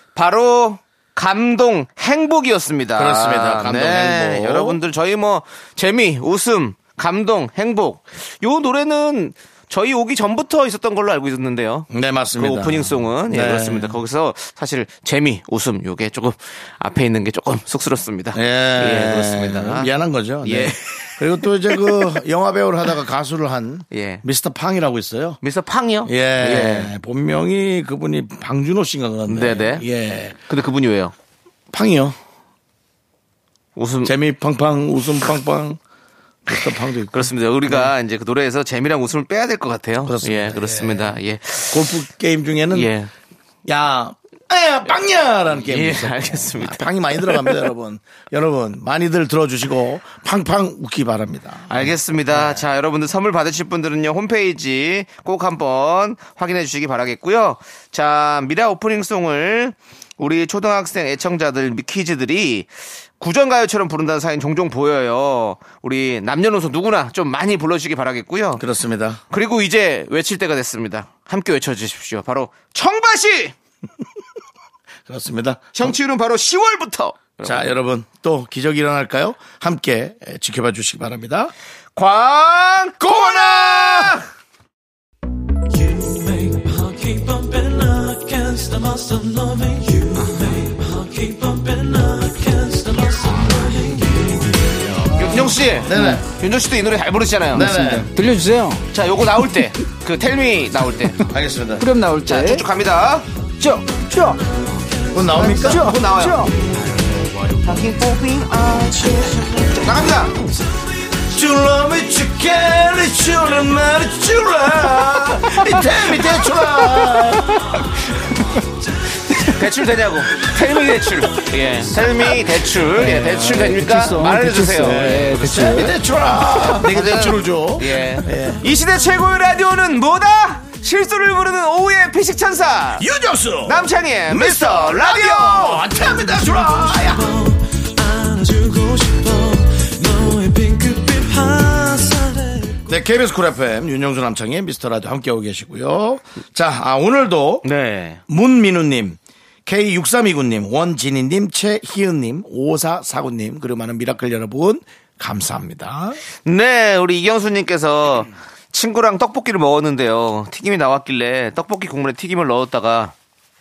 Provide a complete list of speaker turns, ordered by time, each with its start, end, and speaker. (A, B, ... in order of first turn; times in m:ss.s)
0:00.2-0:19.9 A
0:03.0-0:04.8 B
0:11.9-0:14.0 B
0:18.3-0:25.4 B
0:20.4-0:22.2 A
0:23.9-0:24.2 A
0:25.4-0:26.9 A
0:26.0-0:30.4 B
0:29.3-0:29.9 A
0:30.5-0:31.1 A
0:31.7-0:32.2 B
0:33.8-0:34.1 A
0:34.0-0:35.8 B
0:36.5-0:37.9 B
0:36.5-0:42.0 A
0:40.0-0:42.9 B
0:42.7-0:43.1 A
0:43.7-0:52.6 B
0:45.6-0:47.6 A
0:51.7-1:08.6 A
1:08.6-1:09.2 B
1:09.3-1:13.5 A
1:15.1-1:16.0 B
1:15.8-1:17.7 A
1:17.4-1:21.5 B
1:22.0-1:24.2 A
1:23.0-1:24.2 B
1:25.8-1:34.8 C
1:35.1-1:37.8 A
1:35.2-1:36.2 B
1:37.5-1:38.1 B
1:37.7-1:38.8 D
1:38.9-1:41.3 A
1:41.2-1:42.0 B
1:41.8-1:42.6 D
1:42.1-1:43.3 A
1:43.6-1:44.4 D
1:45.1-1:46.1 B
1:45.4-1:46.5 D
1:45.4-1:46.5 A
1:47.6-1:50.4 A
1:51.2-1:57.7 B
1:59.3-2:06.0 A
2:02.9-2:03.6 B
2:03.0-2:05.8 D
2:04.7-2:08.6 B
2:06.6-2:13.0 A
2:13.0-2:17.3 B
2:13.6-2:15.9 A
2:17.3-2:22.7 C
2:22.9-2:27.7 B
2:27.6-2:28.2 A
2:28.3-2:36.2 B
2:36.4-2:43.1 A